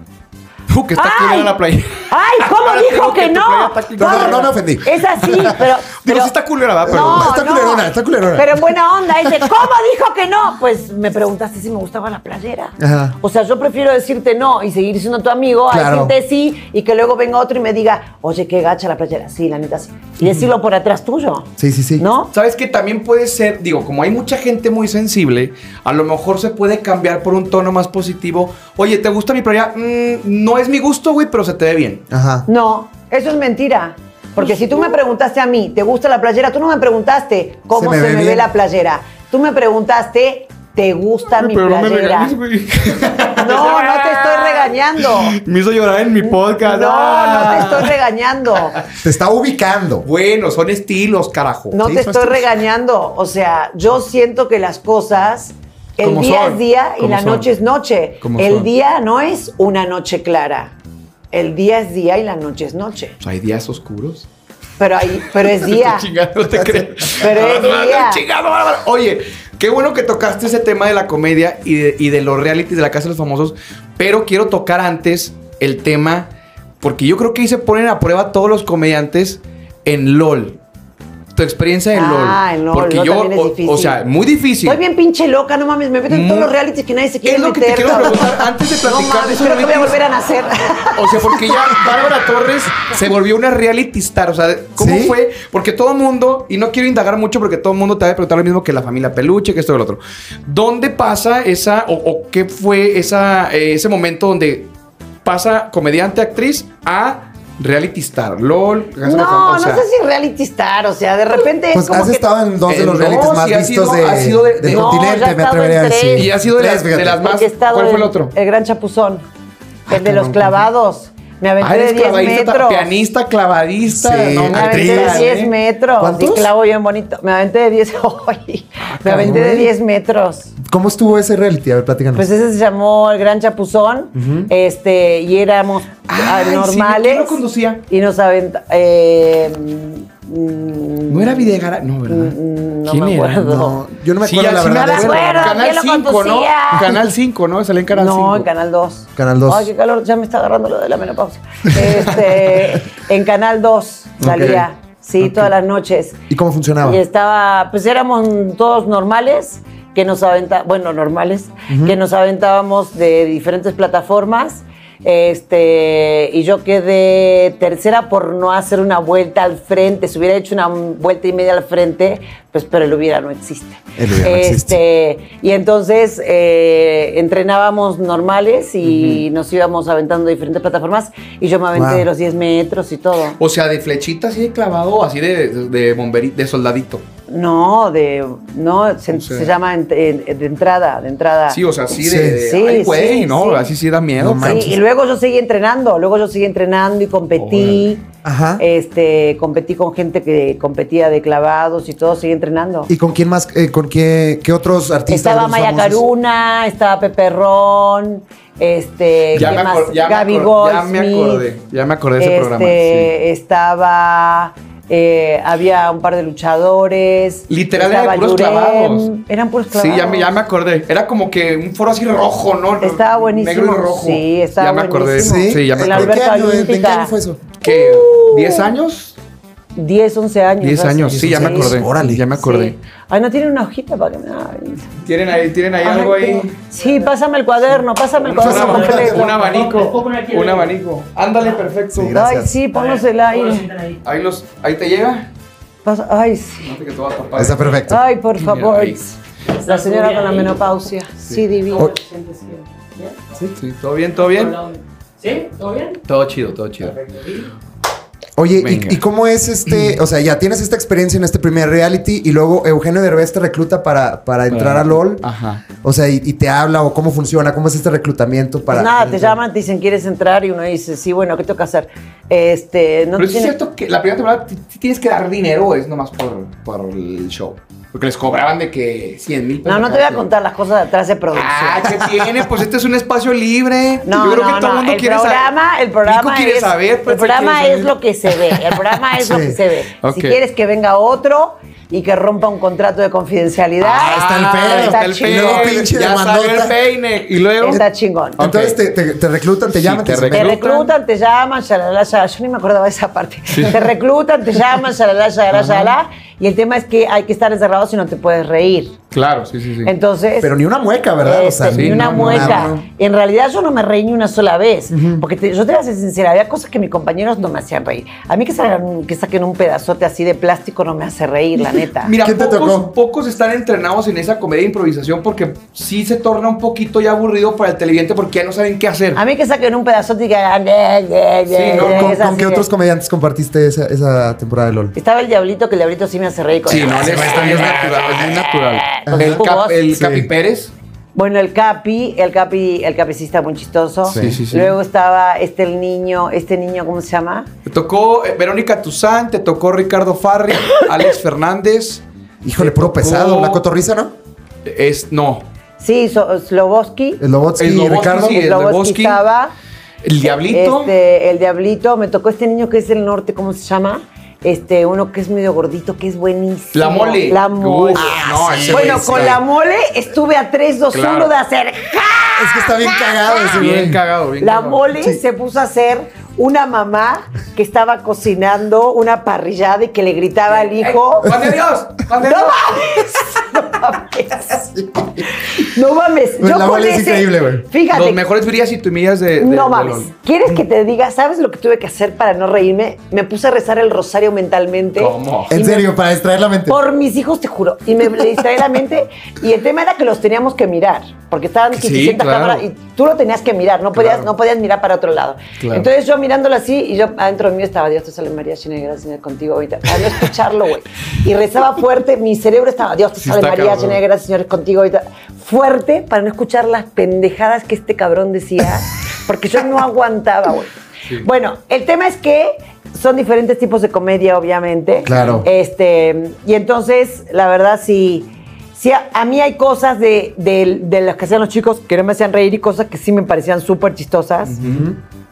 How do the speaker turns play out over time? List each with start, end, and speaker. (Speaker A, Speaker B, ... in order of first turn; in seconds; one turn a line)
Speaker A: 0.7-4.5
Speaker B: 0.9-1.5
Speaker B: 2.1-22.3
Speaker C: 4.0-5.5
Speaker A: 6.0-7.3
Speaker C: 6.9-8.6
Speaker C: 12.8-13.1
Speaker C: 15.7-16.1
Speaker C: 21.6-22.0
Speaker A: 22.3-32.0
Speaker C: 32.1-32.5
Speaker B: 32.5-42.3
Speaker C: 37.7-38.5
Speaker A: 41.3-47.9
Speaker B: 43.3-45.4
Speaker B: 46.2-48.8
Speaker C: 49.0-50.0
Speaker A: 50.0-51.8
Speaker B: 51.7-60.7
Speaker C: 51.7-52.5
Speaker A: 56.0-57.5
Speaker A: 58.2-58.7
Speaker B: 61.3-63.1
Speaker A: 63.2-64.3
Speaker B: 64.8-66.1
Speaker A: 65.3-76.3
Speaker B: 67.1-68.2
Speaker A: 76.8-80.6
Speaker A: 81.3-84.8
Speaker B: 81.9-84.0
Speaker B: 84.6-91.8
Speaker A: 86.1-86.5
Speaker A: 87.2-90.0
Speaker A: 90.9-104.7
Speaker C: 94.8-95.2
Speaker A: 105.2-109.8
Speaker B: 109.0-112.2
Speaker C: 111.7-117.2
Speaker A: 112.7-115.2
Speaker B: 114.7-116.3
Speaker A: 116.1-118.3
Speaker B: 117.2-119.2
Speaker B: 119.9-122.9
Speaker C: 119.9-120.6
Speaker A: 121.6-125.4
Speaker C: 123.9-126.5
Speaker B: 124.5-130.5
Speaker A: 128.8-129.4
Speaker C: 129.1-129.7
Speaker C: 130.6-132.2
Speaker B: 132.1-141.5
Speaker C: 134.1-134.5
Speaker A: 136.1-137.8
Speaker A: 141.1-142.3
Speaker B: 142.1-143.8
Speaker A: 142.9-143.5
Speaker C: 143.4-145.6
Speaker A: 144.2-148.5
Speaker B: 144.7-146.9
Speaker B: 147.9-156.2
Speaker C: 149.2-149.7
Speaker C: 154.2-154.6
Speaker C: 155.2-155.5
Speaker C: 156.3-157.0
Speaker B: 156.8-183.4
Speaker C: 161.7-161.9
Speaker C: 174.0-174.8
Speaker A: 178.8-179.2
Speaker C: 181.7-182.1
Speaker A: 183.4-187.0
Speaker B: 187.3-191.6
Speaker A: 189.1-189.5
Speaker A: 191.5-194.7
Speaker C: 192.0-192.4
Speaker B: 192.4-193.7
Speaker C: 194.2-194.8
Speaker B: 194.4-198.1
Speaker A: 197.4-197.9
Speaker C: 198.2-198.6
Speaker B: 198.6-202.9
Speaker C: 202.9-206.0
Speaker B: 205.1-211.4
Speaker A: 209.3-213.1
Speaker B: 212.2-220.3
Speaker A: 217.5-219.1
Speaker A: 219.7-226.2
Speaker B: 222.8-227.1
Speaker C: 225.2-227.4
Speaker A: 227.6-229.2
Speaker B: 227.6-228.7
Speaker B: 229.8-231.8
Speaker A: 230.6-232.7
Speaker C: 231.1-232.2
Speaker B: 232.4-235.0
Speaker A: 235.0-236.6
Speaker B: 235.8-239.3
Speaker A: 238.2-242.2
Speaker C: 238.4-239.2
Speaker D: 238.5-240.7
Speaker C: 241.9-242.6
Speaker B: 242.1-243.7
Speaker D: 242.7-244.0
Speaker A: 244.0-245.3
Speaker B: 245.8-246.7
Speaker A: 246.6-247.8
Speaker C: 247.3-248.0
Speaker B: 247.9-251.9
Speaker A: 248.4-249.0
Speaker D: 249.5-250.6
Speaker D: 251.6-253.2
Speaker A: 253.6-254.6
Speaker D: 254.2-256.0
Speaker A: 256.1-256.9
Speaker D: 256.8-257.5
Speaker C: 258.4-265.2
Speaker A: 258.5-259.0
Speaker A: 259.6-260.0
Speaker A: 264.5-265.6
Speaker C: 265.8-269.4
Speaker B: 268.7-273.5
Speaker A: 273.2-280.2
Speaker B: 279.6-281.9
Speaker A: 281.3-285.5
Speaker B: 284.0-295.9
Speaker A: 286.0-288.9
Speaker C: 289.1-289.6
Speaker A: 290.0-290.4
Speaker A: 293.8-297.8
Speaker C: 293.9-296.7
Speaker B: 297.6-298.4
Speaker A: 298.4-298.8
Speaker C: 298.4-300.6
Speaker A: 299.7-300.9
Speaker B: 300.3-308.9
Speaker A: 303.5-303.9
Speaker A: 305.5-305.9
Speaker A: 309.1-309.9
Speaker B: 309.8-310.5
Speaker C: 310.4-312.8
Speaker B: 311.2-322.1
Speaker A: 311.7-312.7
Speaker C: 314.9-315.2
Speaker A: 322.0-329.2
Speaker C: 322.2-322.9
Speaker B: 329.1-332.7
Speaker A: 331.5-332.2
Speaker C: 331.7-334.9
Speaker B: 334.9-339.8
Speaker A: 336.6-340.7
Speaker C: 336.8-338.3
Speaker C: 339.0-340.3
Speaker B: 341.1-347.5
Speaker C: 344.0-344.4
Speaker A: 344.1-344.8
Speaker A: 347.6-352.0
Speaker C: 352.4-354.1
Speaker A: 352.6-353.6
Speaker A: 354.6-355.5
Speaker B: 355.8-357.2
Speaker C: 357.2-358.4
Speaker A: 357.6-359.2
Speaker B: 358.2-359.5
Speaker A: 360.0-360.9
Speaker B: 360.2-373.7
Speaker A: 366.7-369.4
Speaker C: 368.0-369.4
Speaker A: 370.9-371.3
Speaker C: 372.4-374.0
Speaker A: 373.5-374.8
Speaker B: 374.4-381.3
Speaker A: 380.6-382.8
Speaker B: 382.2-384.7
Speaker C: 384.6-385.2
Speaker B: 385.4-388.2
Speaker C: 386.4-387.6
Speaker A: 387.9-390.1
Speaker B: 389.4-395.9
Speaker A: 394.9-395.6
Speaker C: 395.5-396.8
Speaker B: 396.7-434.6
Speaker A: 401.7-402.6
Speaker A: 403.9-404.3
Speaker A: 405.6-405.9
Speaker A: 413.2-414.0
Speaker C: 425.1-425.5
Speaker A: 425.1-425.4
Speaker A: 434.5-434.9
Speaker C: 434.6-435.0